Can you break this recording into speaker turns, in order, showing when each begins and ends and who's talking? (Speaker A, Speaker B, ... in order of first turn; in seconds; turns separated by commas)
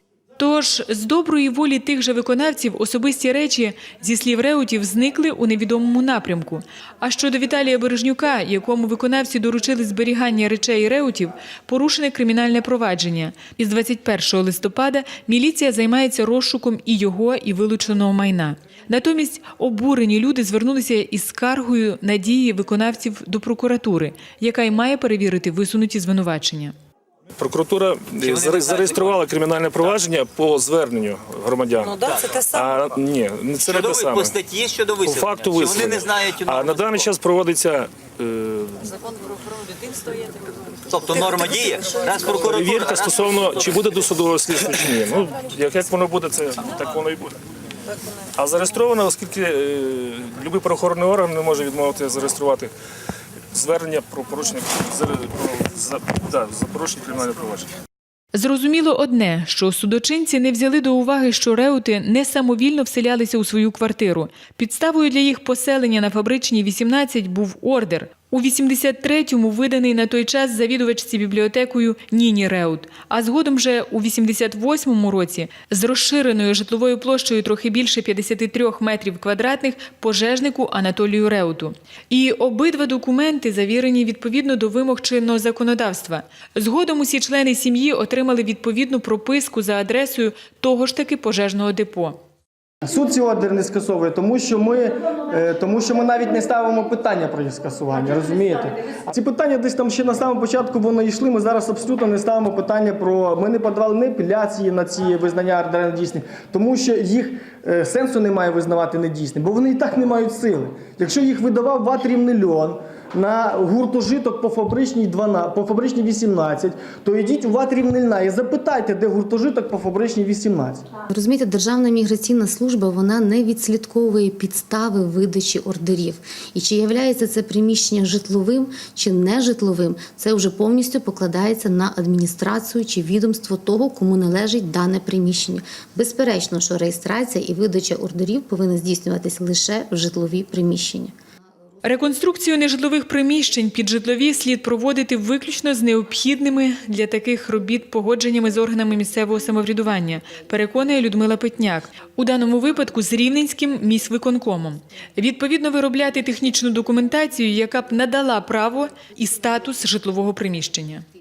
Speaker A: 0.4-26.8, Speaker B: 27.4-34.4, Speaker C: 28.2-29.2, Speaker C: 31.8-32.8, Speaker C: 33.6-37.1, Speaker B: 35.0-38.9, Speaker C: 40.9-43.4, Speaker B: 42.2-47.4, Speaker B: 48.4-52.7, Speaker B: 53.5-57.7, Speaker A: 58.3-92.2, Speaker D: 92.8-120.9, Speaker E: 121.1-141.1, Speaker A: 141.8-161.1